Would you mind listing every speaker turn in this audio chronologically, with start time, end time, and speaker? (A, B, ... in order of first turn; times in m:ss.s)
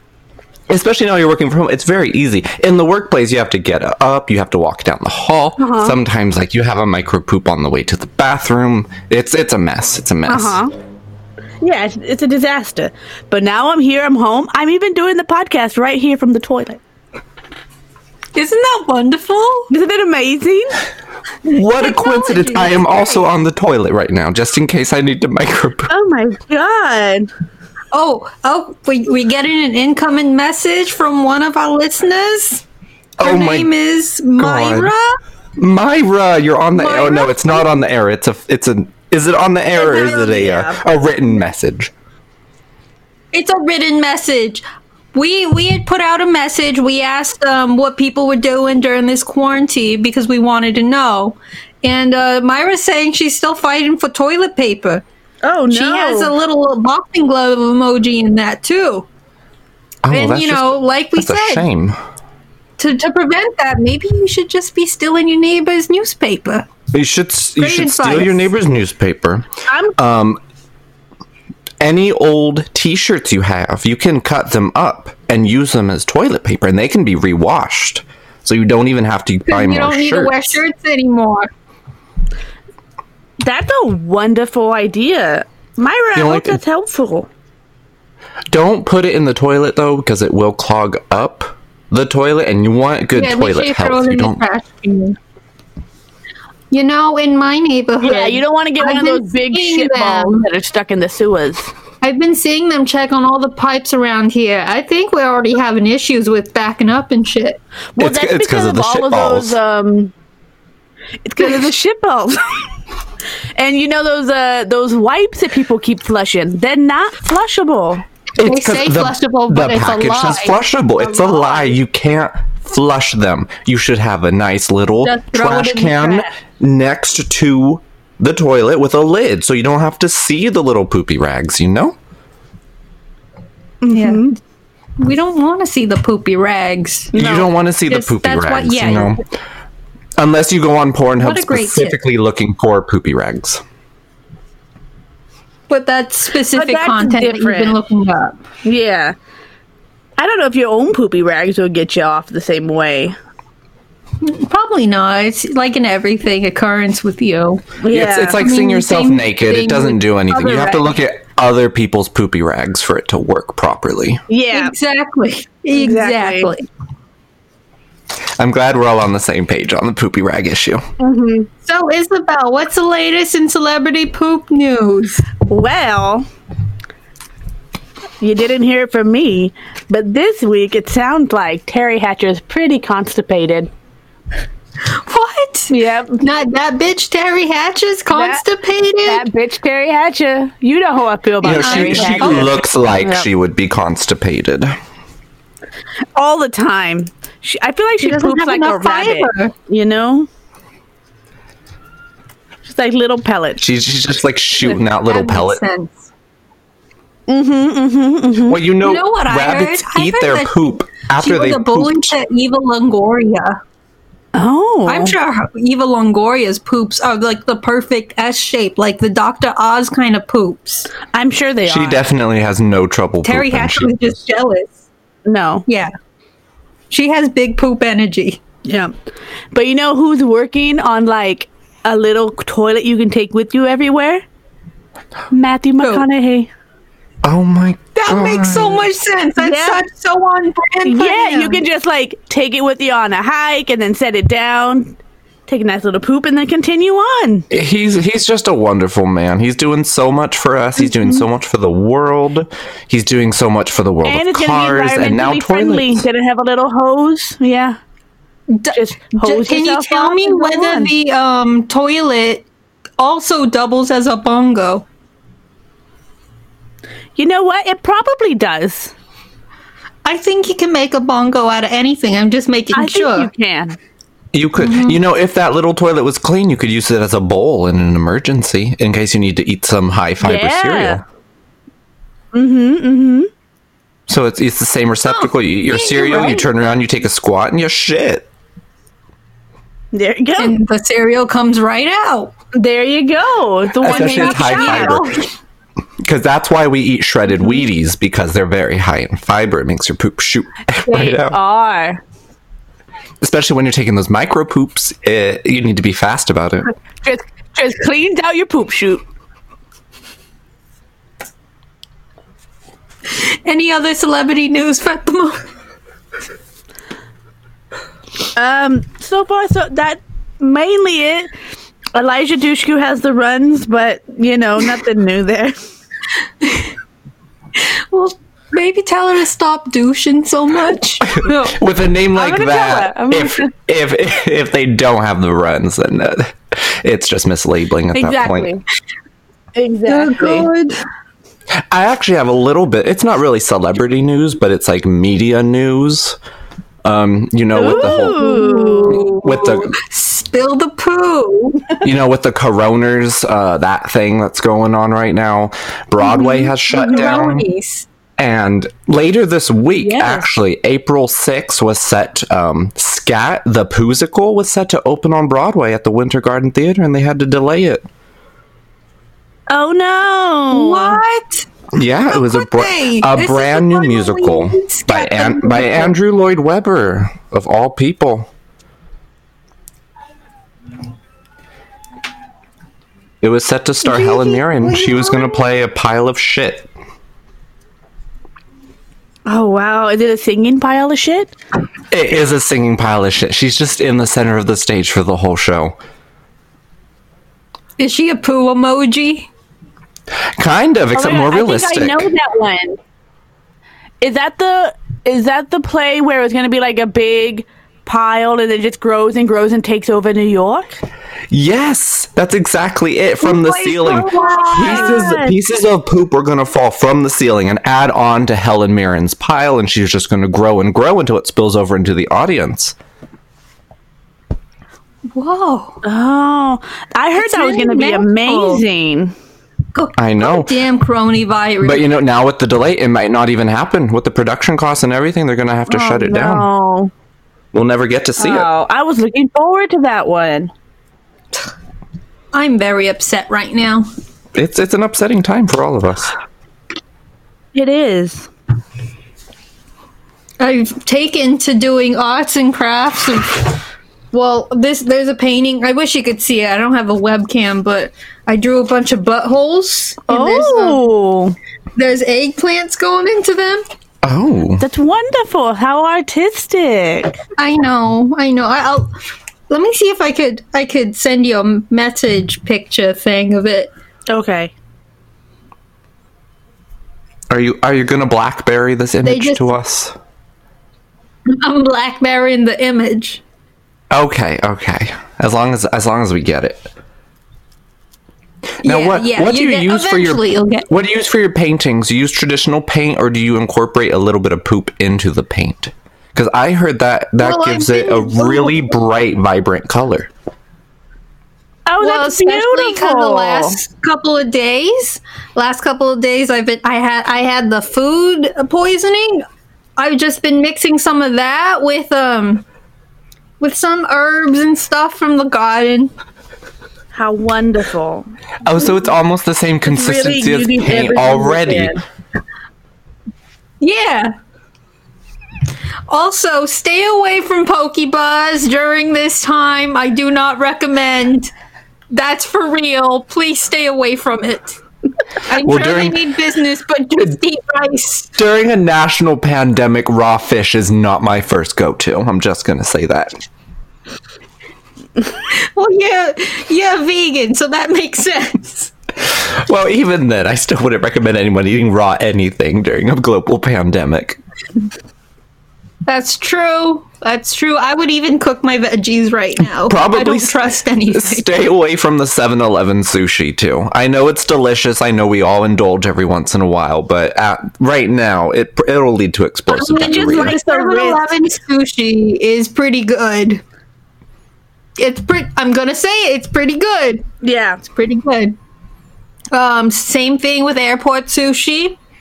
0:00.7-0:10.6 A
0:05.6-0:06.0 B
0:10.3-0:10.7 B
0:11.6-0:16.8 B
0:18.4-0:19.7 C
0:19.7-0:20.8 B
0:21.5-0:25.9 A
0:21.5-0:23.3 C
0:25.9-0:27.3 B
0:27.9-0:32.6 C
0:33.2-0:33.7 A
0:33.2-0:35.2 C
0:34.4-0:34.9 A
0:35.6-0:41.9 A
0:36.8-0:37.7 C
0:39.8-0:40.8 B
0:39.8-0:40.5 C
0:43.3-0:55.0 C
0:55.4-0:56.3 B
0:55.7-0:59.1 C
1:00.0-1:02.0 A
1:00.1-1:01.6 C
1:02.8-1:06.7 C
1:06.9-1:10.4 A
1:07.6-1:08.5 C
1:09.7-1:10.0 B
1:11.8-1:20.6 A
1:19.5-1:21.5 C
1:23.4-1:27.3 B
1:26.2-1:26.6 A
1:28.5-1:34.4 A
1:33.2-1:35.2 C
1:36.7-1:40.4 C
1:38.0-1:41.7 B
1:42.0-1:47.6 C
1:48.0-1:50.1 B
1:48.0-1:49.6 A
1:51.2-1:52.8 B
1:53.6-1:58.0 B
1:58.4-2:12.0 A
1:58.4-2:01.8 C
2:05.0-2:06.3 C
2:13.8-2:14.4 B
2:13.9-2:14.4 C
2:15.0-2:17.2 C
2:17.1-2:17.5 B
2:17.2-2:19.2 A
2:17.9-2:19.2 C
2:20.2-2:23.6 A
2:21.2-2:22.0 C
2:25.7-2:28.4 C
2:26.5-2:27.8 B
2:28.6-2:29.2 B
2:30.2-2:33.2 B
2:34.2-2:37.6 C
2:37.8-2:38.4 B
2:37.9-2:44.2 A
2:38.4-2:40.9 C
2:44.3-2:44.8 B
2:44.5-2:46.7 C
2:45.7-2:46.5 B
2:48.4-2:50.8 A
2:51.0-2:51.5 B
2:51.6-2:55.3 C
2:55.5-2:56.3 B
2:58.2-3:03.7 B
3:04.8-3:09.2 C
3:05.7-3:06.2 B
3:08.1-3:08.4 B
3:09.0-3:13.3 B
3:11.4-3:14.7 A
3:11.5-3:12.6 C
3:16.2-3:20.3 B
3:18.0-3:19.5 C
3:22.6-3:23.6 B
3:23.6-3:25.6 A
3:24.6-3:26.0 C
3:27.3-3:28.6 B
3:28.5-3:32.2 A
3:28.8-3:33.6 C
3:34.3-3:35.2 B
3:34.9-3:40.9 C
3:41.1-3:42.0 B
3:41.7-3:44.2 A
3:43.2-3:44.8 C
3:45.2-3:45.6 B
3:45.7-3:45.9 C
3:46.9-3:48.4 C
3:48.6-3:48.9 B
3:49.5-3:54.2 B
3:55.3-3:56.5 B
3:55.8-3:56.0 C
3:57.2-3:58.9 A
3:58.0-4:01.6 C
3:59.4-3:59.8 B
4:00.9-4:07.5 B
4:07.5-4:16.0 A
4:10.8-4:11.3 B
4:14.0-4:17.8 B
4:18.5-4:22.5 C
4:18.7-4:20.9 B
4:23.0-4:24.8 C
4:27.2-4:28.9 B
4:30.0-4:33.3 C
4:32.7-4:33.8 B
4:34.3-4:41.0 A
4:34.6-4:35.0 C
4:40.2-4:41.0 B
4:42.3-4:43.3 B
4:44.1-4:48.3 A
4:45.1-4:46.5 C
4:49.9-4:50.6 B
4:50.4-4:52.3 C
4:52.5-4:55.0 B
4:53.8-4:55.2 A
4:53.8-4:55.3 C
4:56.0-5:01.4 A
5:00.9-5:01.2 C
5:01.2-5:02.0 B
5:03.2-5:06.7 A
5:07.0-5:09.0 B
5:13.1-5:15.4 C
5:18.3-5:21.3 B
5:21.9-5:25.6 B
5:26.4-5:26.7 C
5:27.6-5:31.6 C
5:31.5-5:38.5 A
5:32.2-5:33.5 B
5:37.9-5:38.6 B
5:39.5-5:40.5 B
5:39.9-5:40.8 C
5:41.7-5:46.2 A
5:46.8-5:48.3 A
5:47.6-5:49.2 B
5:47.8-5:51.8 C
5:48.9-5:49.7 A
5:51.8-5:57.5 A
5:56.1-5:57.1 B
5:56.2-5:57.9 C
5:58.2-6:07.8 A
5:59.8-6:00.3 B
6:09.5-6:11.0 B
6:10.5-6:11.5 C
6:11.7-6:18.3 A
6:12.1-6:15.9 C
6:23.2-6:26.7 A
6:23.8-6:25.4 C
6:29.3-6:31.3 B
6:31.9-6:35.8 A
6:37.8-6:39.3 C
6:40.4-6:42.1 A
6:40.9-6:42.8 B
6:44.0-6:50.8 B
6:51.3-7:02.8 A
6:53.2-6:55.1 C
6:54.3-6:55.4 B
7:05.2-7:05.8 C
7:05.8-7:09.2 B
7:07.2-7:08.6 C
7:09.8-7:11.9 C
7:10.0-7:10.6 A
7:11.6-7:16.5 A
7:15.7-7:16.9 B
7:17.5-7:18.5 A
7:18.2-7:20.5 B
7:22.3-7:23.9 C
7:24.4-7:26.2 A
7:27.5-7:28.3 B
7:30.4-7:33.6 C
7:34.1-7:40.8 C
7:40.1-7:41.4 B
7:41.8-7:43.6 C
7:44.0-7:44.6 A
7:44.6-7:47.2 B
7:47.4-7:48.9 C
7:49.5-7:53.7 C
7:54.1-7:54.5 B
7:57.3-7:59.9 A
7:59.0-7:59.5 C
8:01.3-8:03.2 C
8:03.9-8:06.7 A
8:08.6-8:10.7 C
8:08.6-8:20.1 A
8:17.2-8:18.7 C
8:21.7-8:23.6 B
8:21.8-8:29.2 C
8:29.8-8:32.4 C
8:33.4-8:35.9 C
8:36.9-8:38.1 B
8:38.4-8:41.8 A
8:39.6-8:41.8 B
8:43.6-8:44.2 C
8:45.9-8:51.3 C
8:51.9-8:54.6 C
8:55.2-8:58.1 C
8:55.4-8:56.0 A
8:58.2-9:03.2 A
9:05.3-9:08.7 C
9:09.1-9:14.2 A
9:15.9-9:21.3 C
9:19.7-9:20.4 A
9:20.9-9:30.4 A
9:29.5-9:33.4 C
9:29.7-9:31.2 B
9:34.8-9:37.1 C
9:37.2-9:37.6 B
9:37.6-9:38.3 C
9:39.3-9:41.8 C